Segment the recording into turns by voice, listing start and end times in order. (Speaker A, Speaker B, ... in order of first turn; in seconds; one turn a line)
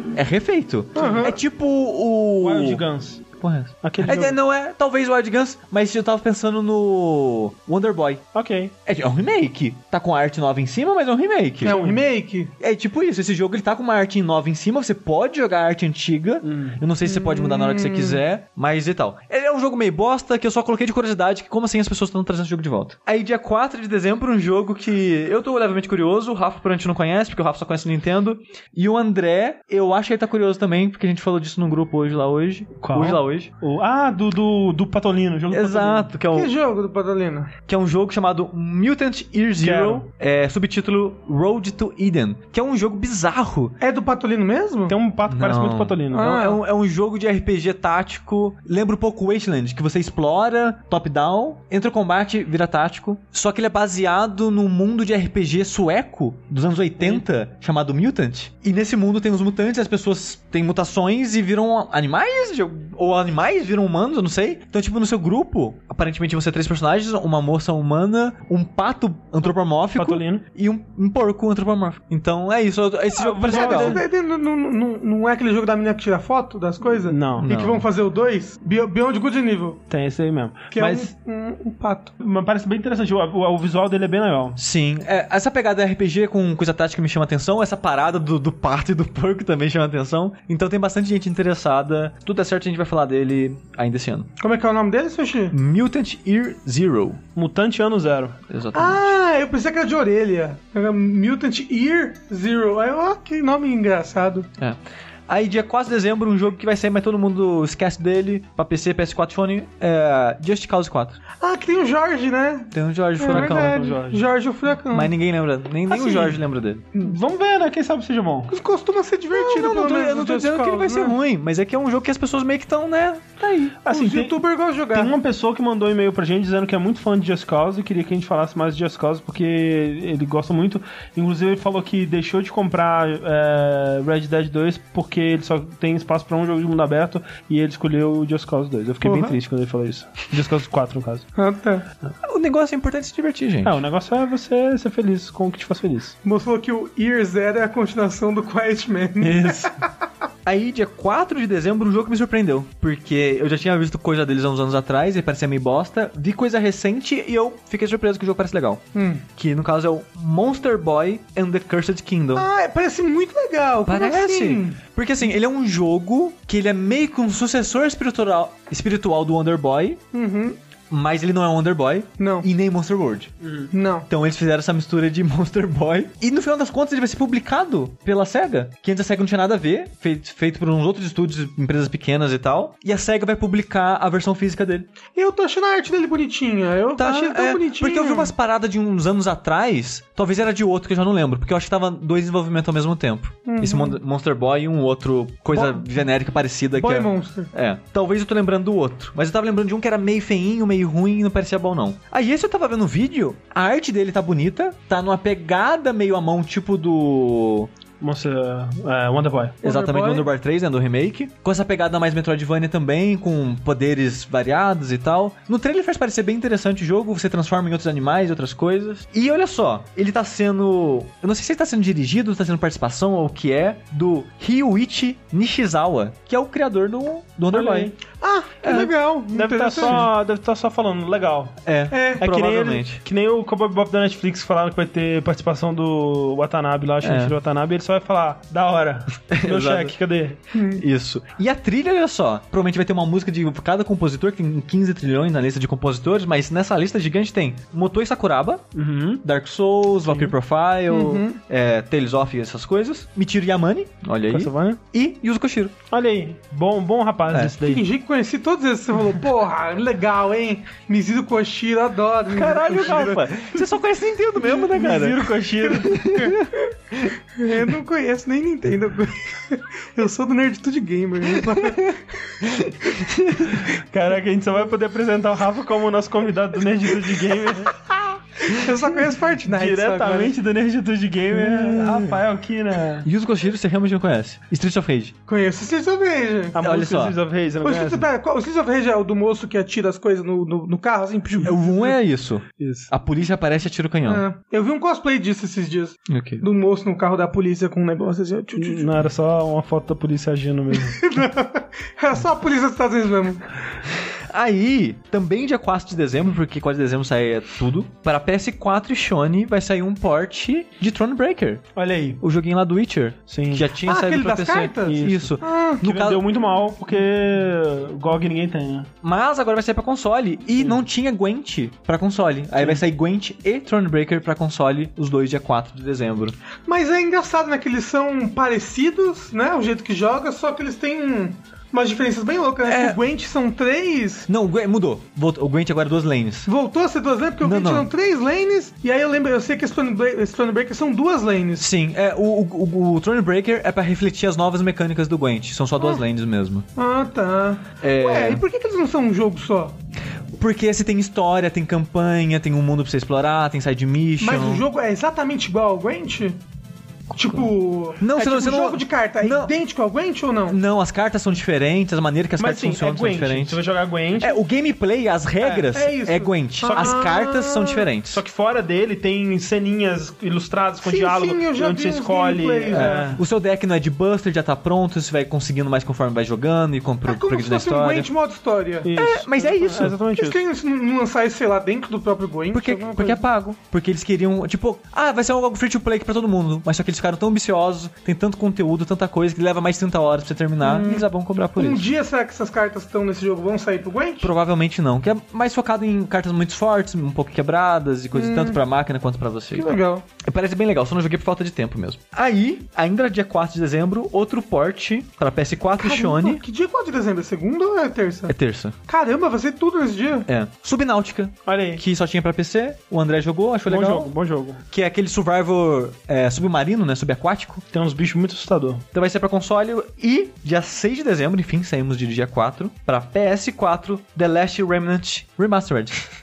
Speaker A: 0.1-2.8
Speaker B: 0.9-1.4
Speaker C: 2.4-3.2
Speaker A: 3.4-8.2
Speaker C: 3.8-4.4
Speaker C: 8.3-8.7
Speaker A: 8.9-11.8
Speaker B: 11.6-12.5
Speaker C: 11.7-12.0
Speaker A: 12.6-33.5
Speaker C: 16.4-16.8
Speaker B: 17.0-18.2
Speaker C: 32.8-36.1
Speaker A: 35.5-36.5
Speaker B: 36.3-37.5
Speaker A: 37.7-43.8
Speaker C: 39.6-40.1
Speaker B: 43.8-45.0
Speaker C: 44.9-46.3
Speaker A: 45.3-74.0
Speaker B: 46.1-46.6
Speaker C: 70.0-70.4
Speaker C: 73.2-74.0
Speaker B: 73.5-79.8
Speaker C: 77.1-77.5
Speaker A: 77.5-77.9
Speaker C: 79.9-81.1
Speaker B: 80.7-82.1
Speaker C: 82.2-84.6
Speaker A: 84.6-94.3
Speaker B: 94.4-95.5
Speaker A: 95.5-97.2
Speaker C: 97.4-98.4
Speaker A: 98.5-99.1
Speaker B: 98.7-104.5
Speaker A: 104.6-111.2
Speaker B: 111.4-115.1
Speaker A: 112.7-113.8
Speaker C: 113.3-114.2
Speaker A: 114.9-116.8
Speaker B: 115.9-116.4
Speaker C: 117.0-118.5
Speaker B: 118.5-121.2
Speaker A: 119.3-123.4
Speaker C: 123.4-124.4
Speaker B: 123.9-125.2
Speaker C: 124.9-141.3
Speaker B: 139.0-139.4
Speaker B: 141.4-141.9
Speaker A: 142.2-143.8
Speaker C: 143.6-146.2
Speaker B: 146.2-149.8
Speaker C: 149.2-149.7
Speaker A: 150.5-162.5
Speaker B: 158.9-159.2
Speaker B: 162.3-164.8
Speaker A: 163.9-170.0
Speaker B: 170.1-170.6
Speaker A: 170.9-173.3
Speaker B: 172.2-172.5
Speaker C: 173.4-173.7
Speaker B: 173.7-174.1
Speaker A: 174.1-184.9
Speaker B: 185.2-188.3
Speaker A: 187.0-207.7
Speaker B: 193.5-194.0
Speaker B: 195.5-195.9
Speaker B: 196.8-197.5
Speaker C: 208.0-209.6
Speaker B: 209.6-210.3
Speaker A: 209.6-227.9
Speaker C: 227.5-227.9
Speaker B: 228.1-230.1
Speaker A: 228.6-228.9
Speaker C: 229.3-231.6
Speaker A: 229.8-230.1
Speaker A: 231.6-233.0
Speaker B: 231.9-232.3
Speaker C: 232.2-240.4
Speaker A: 237.0-237.3
Speaker A: 239.3-239.9
Speaker B: 240.5-240.8
Speaker A: 240.8-248.7
Speaker C: 248.8-249.2
Speaker A: 249.2-255.7
Speaker C: 250.1-250.3
Speaker B: 250.9-251.4
Speaker C: 254.3-254.8
Speaker C: 255.9-257.9
Speaker B: 257.6-263.5
Speaker A: 262.3-265.3
Speaker C: 264.6-266.1
Speaker B: 265.9-266.4
Speaker A: 265.9-267.1
Speaker B: 267.4-272.4
Speaker A: 271.4-273.5
Speaker C: 273.5-277.8
Speaker B: 278.4-280.3
Speaker C: 279.5-283.1
Speaker A: 281.5-282.1
Speaker A: 283.0-285.1
Speaker B: 285.3-286.6
Speaker C: 286.6-288.1
Speaker A: 286.6-287.2
Speaker B: 287.6-291.9
Speaker A: 291.4-294.2
Speaker C: 292.6-292.9
Speaker B: 294.1-298.9
Speaker A: 296.1-296.4
Speaker C: 298.6-301.0
Speaker B: 300.8-303.5
Speaker A: 304.3-311.6
Speaker C: 311.8-312.2
Speaker A: 312.2-316.2
Speaker C: 313.3-313.7
Speaker B: 313.8-315.9
Speaker C: 314.9-318.9
Speaker A: 319.0-326.4
Speaker B: 326.7-334.3
Speaker A: 332.6-333.0
Speaker A: 334.3-336.5
Speaker B: 336.5-341.7
Speaker A: 337.4-337.9
Speaker A: 341.6-346.6
Speaker B: 346.8-349.8
Speaker A: 347.8-348.4
Speaker A: 350.4-354.6
Speaker B: 354.2-356.4
Speaker B: 357.1-360.6
Speaker A: 357.2-359.5
Speaker A: 360.5-363.6
Speaker C: 362.4-364.4
Speaker A: 364.2-368.2
Speaker C: 365.4-365.7
Speaker B: 365.7-367.9
Speaker C: 366.7-367.0
Speaker C: 368.1-373.2
Speaker B: 370.8-373.1
Speaker A: 372.7-378.1
Speaker B: 377.1-378.9
Speaker C: 378.8-380.4
Speaker A: 378.9-380.0
Speaker B: 380.1-383.2
Speaker A: 382.5-391.9
Speaker B: 390.6-394.3
Speaker A: 394.2-406.4
Speaker B: 398.1-398.6
Speaker B: 399.5-400.1
Speaker B: 405.8-408.3
Speaker A: 408.3-408.8
Speaker B: 408.9-410.3
Speaker A: 410.3-414.1
Speaker C: 411.5-411.8
Speaker C: 413.7-414.6
Speaker A: 414.7-417.6
Speaker C: 417.7-418.9
Speaker A: 418.9-426.0